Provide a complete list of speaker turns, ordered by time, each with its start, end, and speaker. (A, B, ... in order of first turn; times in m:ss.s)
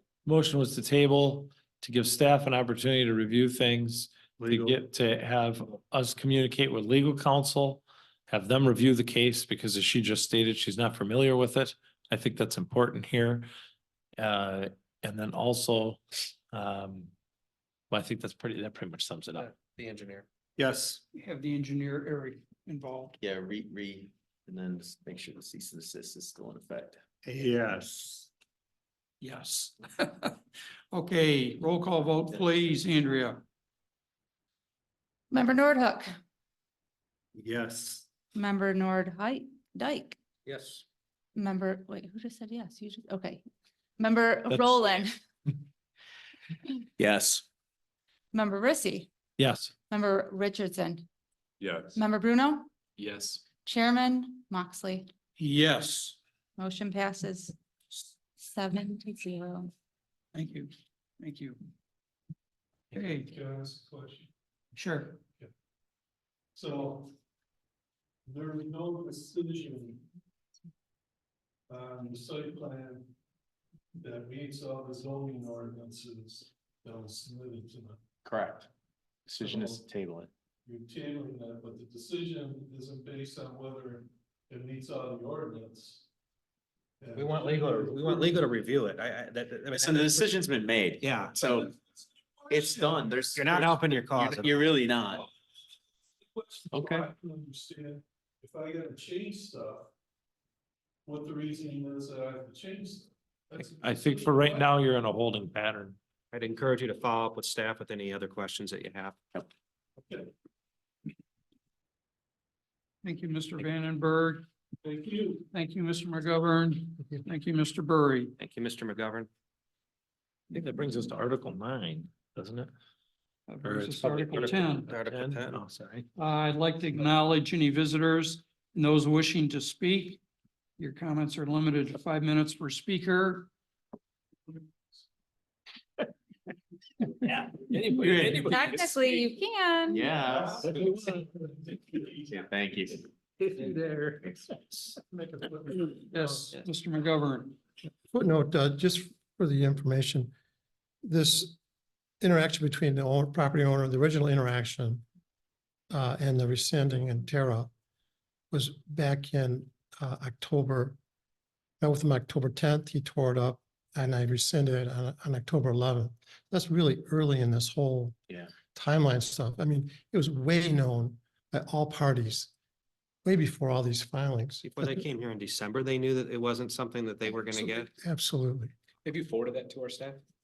0:00.3-0:13.5 A
0:14.2-0:17.1 A
0:17.9-0:19.5 A
0:19.4-0:20.2 B
0:20.6-0:21.0 C
0:21.1-0:23.2 D
0:23.2-0:27.0 E
0:27.3-0:28.3 C
0:29.2-0:30.4 D
0:30.9-0:33.4 D
0:32.3-0:32.9 E
0:35.3-0:36.1 F
0:37.5-0:38.0 C
0:38.4-0:40.2 F
0:41.4-0:43.4 F
0:44.0-0:45.1 F
0:47.0-0:47.4 E
0:48.3-0:49.1 F
0:49.4-0:49.7 A
0:49.9-0:51.1 F
0:51.6-0:52.0 G
0:52.0-0:52.7 F
0:53.0-0:53.4 G
0:53.6-0:55.1 F
0:55.4-0:56.2 D
0:56.6-0:57.6 F
0:58.5-0:59.7 F
1:00.3-1:01.6 D
1:02.9-1:03.3 D
1:03.2-1:04.3 H
1:04.8-1:05.2 D
1:06.6-1:07.1 H
1:08.3-1:10.1 H
1:11.7-1:13.1 H
1:14.0-1:18.0 H
1:18.2-1:18.7 E
1:19.3-1:20.3 E
1:19.4-1:19.9 H
1:20.6-1:26.1 H
1:27.0-1:28.5 H
1:27.2-1:30.3 B
1:27.2-1:29.7 F
1:29.7-1:31.7 E
1:31.1-1:31.4 B
1:31.4-1:31.8 H
1:32.4-1:33.0 H
1:32.5-1:35.3 E
1:33.4-1:34.5 B
1:33.5-1:34.3 F
1:36.3-1:39.9 H
1:36.7-1:37.0 E
1:41.1-1:44.7 H
1:43.6-1:46.0 A
1:46.3-1:49.2 B
1:50.0-1:50.3 H
1:53.0-1:54.4 D
1:54.8-1:55.4 H
1:55.4-1:58.3 D
1:58.4-1:59.3 B
2:00.5-2:02.7 A
2:03.5-2:04.9 D
2:03.6-2:06.1 A
2:04.9-2:05.6 F
2:05.0-2:05.4 B
2:06.2-2:10.2 D
2:10.8-2:13.5 D
2:17.3-2:19.1 A
2:17.7-2:18.6 E
2:18.5-2:20.1 F
2:19.9-2:20.7 E
2:20.1-2:22.4 H
2:22.3-2:23.1 E
2:25.2-2:25.4 H
2:25.9-2:27.6 D
2:26.2-2:26.5 H
2:28.1-2:30.3 I
2:31.0-2:31.6 I
2:32.2-2:35.0 I
2:35.9-2:37.7 I
2:38.5-2:41.0 I
2:41.8-2:52.5 I
2:53.2-2:54.9 I
2:54.6-2:57.8 B
2:56.6-2:57.8 F
2:57.5-2:58.7 I
2:59.0-3:00.2 G